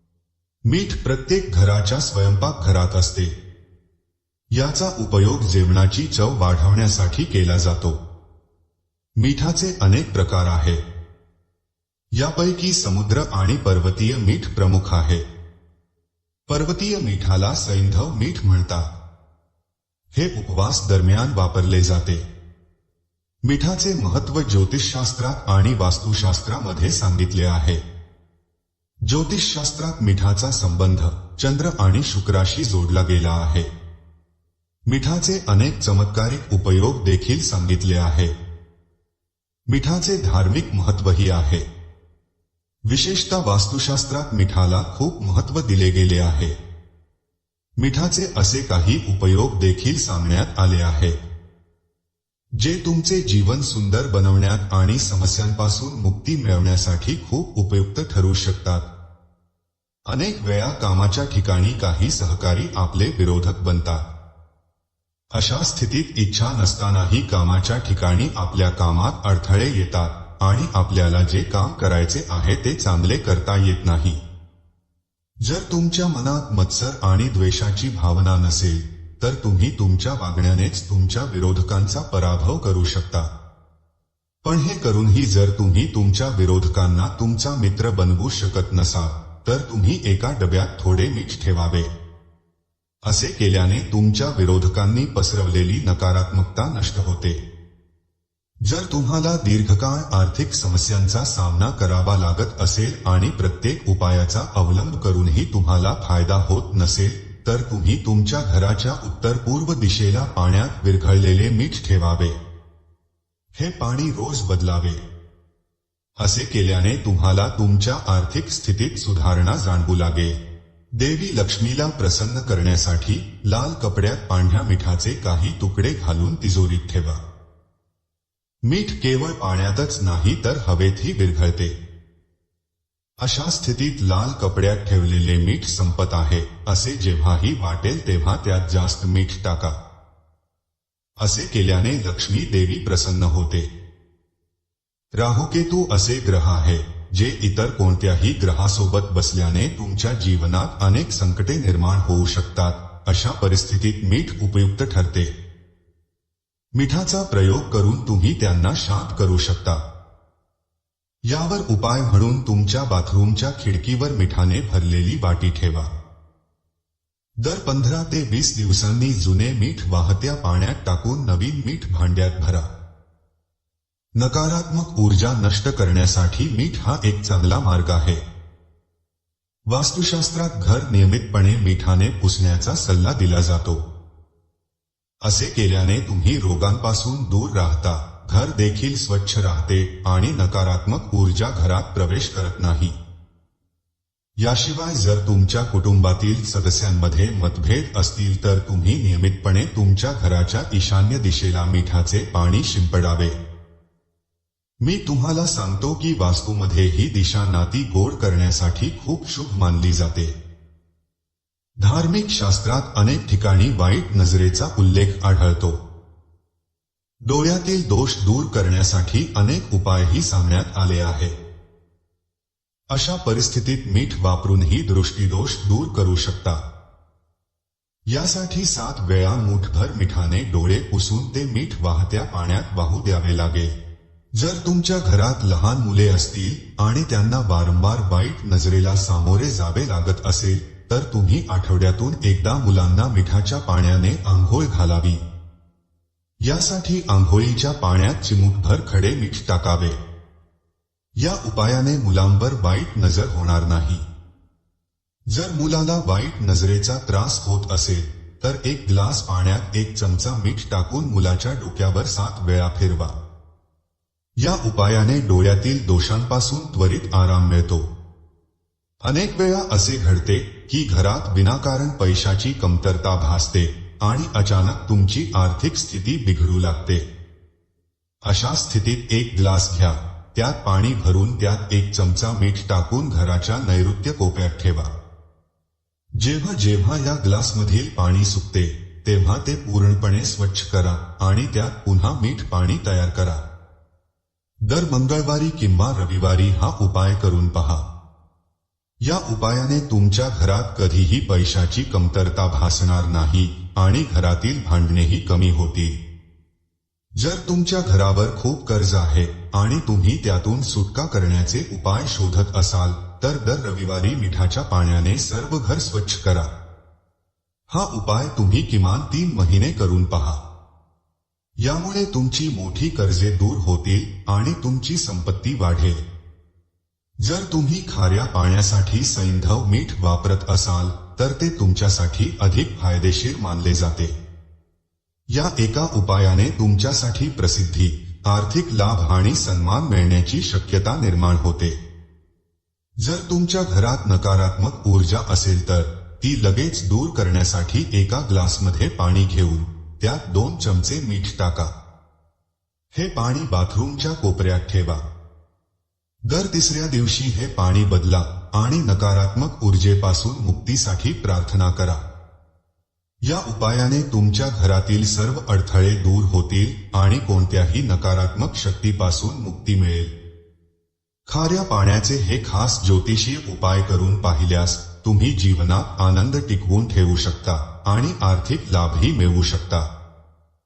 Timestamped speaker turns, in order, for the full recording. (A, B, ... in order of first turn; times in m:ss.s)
0:00.7-0:03.3 A
0:04.5-0:08.0 A
0:09.2-0:10.8 A
0:12.2-0:15.2 A
0:16.5-0:19.0 A
0:20.1-0:22.2 A
0:23.4-0:27.8 A
0:29.0-0:33.7 A
0:34.9-0:38.3 A
0:39.7-0:41.6 A
0:42.9-0:46.6 A
0:47.8-0:51.2 A
0:52.6-0:58.9 A
1:00.1-1:04.1 A
1:05.3-1:14.2 A
1:15.4-1:23.3 A
1:24.4-1:31.9 A
1:33.1-1:37.4 A
1:38.6-1:52.4 A
1:53.6-1:55.0 A
1:56.2-2:00.4 A
2:01.0-2:07.2 A
2:08.6-2:11.8 A
2:13.2-2:19.8 A
2:21.2-2:23.7 A
2:25.2-2:35.3 A
2:36.8-2:39.8 A
2:41.3-2:45.9 A
2:47.4-2:52.7 A
2:54.2-2:58.2 A
2:59.7-3:03.8 A
3:05.2-3:13.0 A
3:14.4-3:23.4 A
3:24.8-3:30.4 A
3:31.8-3:35.8 A
3:37.2-3:41.3 A
3:42.9-3:46.6 A
3:48.1-3:53.7 A
3:54.4-4:05.2 A
4:06.4-4:10.0 A
4:11.2-4:14.0 A
4:15.3-4:23.2 A
4:24.4-4:27.9 A
4:29.0-4:37.0 A
4:38.2-4:44.9 A
4:46.2-4:53.4 A
4:54.6-4:57.8 A
4:59.0-5:06.0 A
5:07.2-5:16.5 A
5:17.7-5:20.4 A
5:21.6-5:26.0 A
5:27.2-5:34.2 A
5:35.3-5:41.8 A
5:43.0-5:51.7 A
5:53.0-5:55.0 A
5:56.3-6:02.0 A
6:03.2-6:10.1 A
6:11.3-6:19.9 A